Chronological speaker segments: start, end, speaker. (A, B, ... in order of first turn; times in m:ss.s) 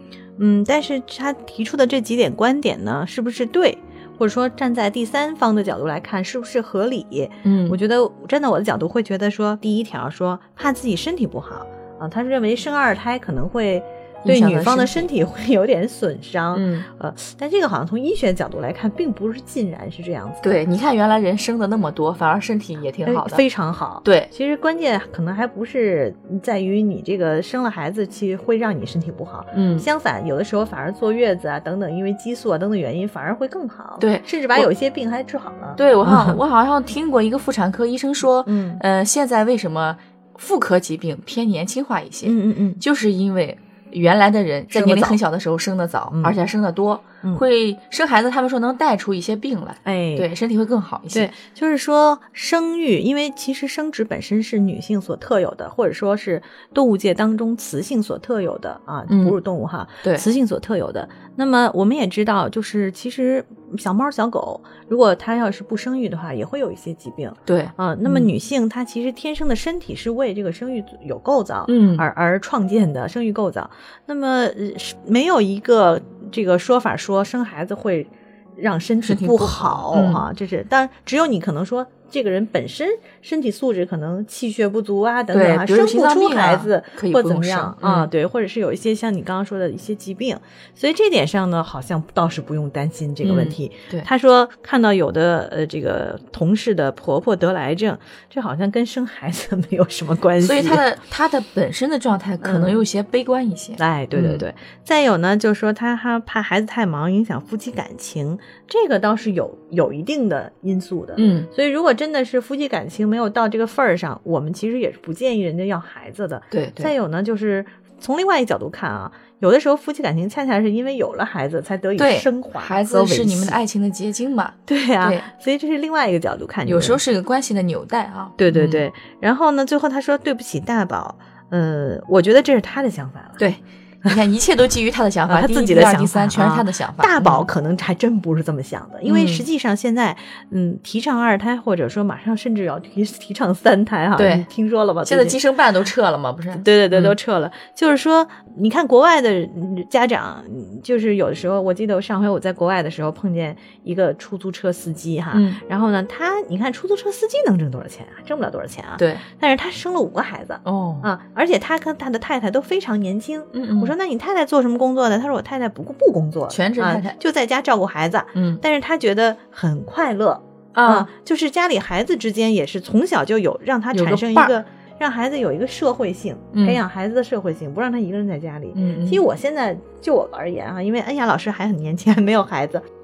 0:00.4-0:20.6 A
0:07.4-0:07.8 B
0:14.2-0:15.1 B
0:16.5-0:16.9 B
0:20.4-0:23.4 B
0:23.0-0:36.4 A
0:24.0-0:24.3 B
0:29.5-0:29.9 B
0:34.0-0:34.7 B
0:35.8-0:51.3 B
0:38.4-0:38.8 A
0:42.2-0:42.8 A
0:44.7-0:45.2 A
0:46.1-0:46.4 A
0:49.8-0:50.3 A
0:51.1-1:40.8 A
0:59.1-0:59.4 B
1:07.5-1:08.3 B
1:11.7-1:12.0 B
1:19.0-1:20.2 B
1:25.3-1:28.1 B
1:33.2-1:34.1 B
1:40.4-1:44.4 B
1:42.4-1:42.8 A
1:43.8-2:03.6 A
1:51.2-1:51.5 B
1:56.5-1:56.9 B
2:02.0-2:05.3 B
2:04.7-2:07.0 A
2:06.6-2:08.8 B
2:08.4-2:13.4 A
2:13.4-2:17.5 B
2:15.3-2:25.4 A
2:19.0-2:19.4 B
2:24.2-2:24.5 B
2:25.0-2:27.2 B
2:26.5-3:02.8 A
2:35.3-2:35.6 B
2:39.0-2:39.2 B
2:40.6-2:41.1 B
2:43.5-2:43.9 B
2:46.5-2:47.2 B
2:48.3-2:48.6 B
2:50.7-2:51.1 B
2:53.9-2:54.6 B
2:56.5-2:56.8 B
2:58.7-2:59.2 B